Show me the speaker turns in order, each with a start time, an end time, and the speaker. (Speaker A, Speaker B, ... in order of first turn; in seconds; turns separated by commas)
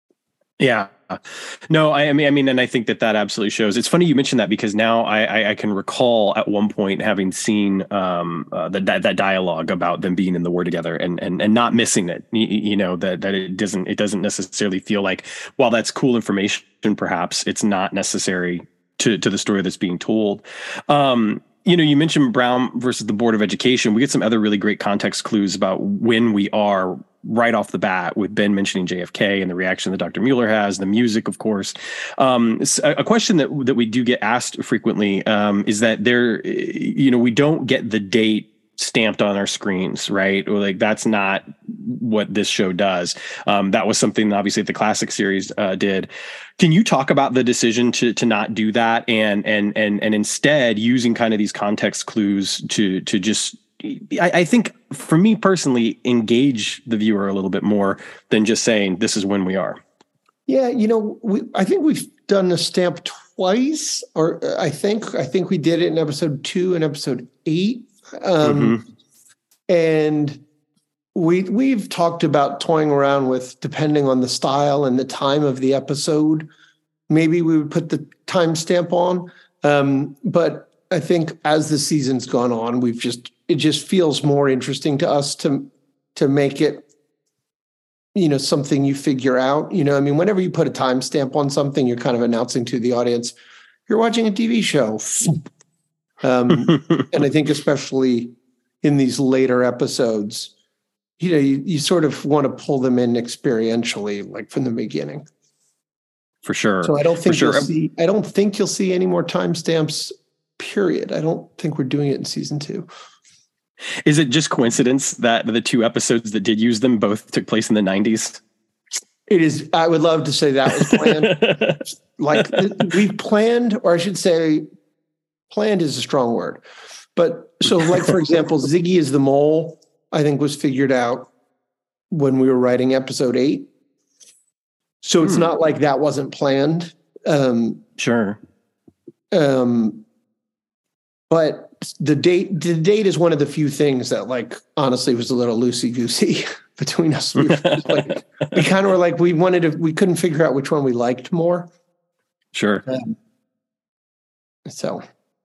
Speaker A: 0.6-59.8, Speaker B: 60.5-68.8, Speaker A: 68.4-68.8, Speaker B: 69.7-70.4, Speaker B: 71.1-76.5, Speaker B: 77.1-86.8, Speaker B: 88.1-93.3, Speaker B: 93.9-95.4, Speaker B: 96.2-100.5, Speaker B: 101.2-105.3, Speaker A: 106.4-107.7, Speaker B: 106.8-112.9, Speaker A: 114.0-118.4, Speaker B: 119.3-121.7, Speaker A: 120.8-121.8, Speaker B: 122.2-124.7, Speaker B: 125.5-126.6, Speaker B: 127.2-131.3, Speaker B: 132.1-133.7, Speaker B: 135.0-137.8, Speaker A: 135.2-135.5, Speaker A: 138.0-138.4, Speaker B: 139.3-140.0, Speaker B: 141.3-151.7, Speaker A: 152.5-152.8, Speaker B: 154.7-155.0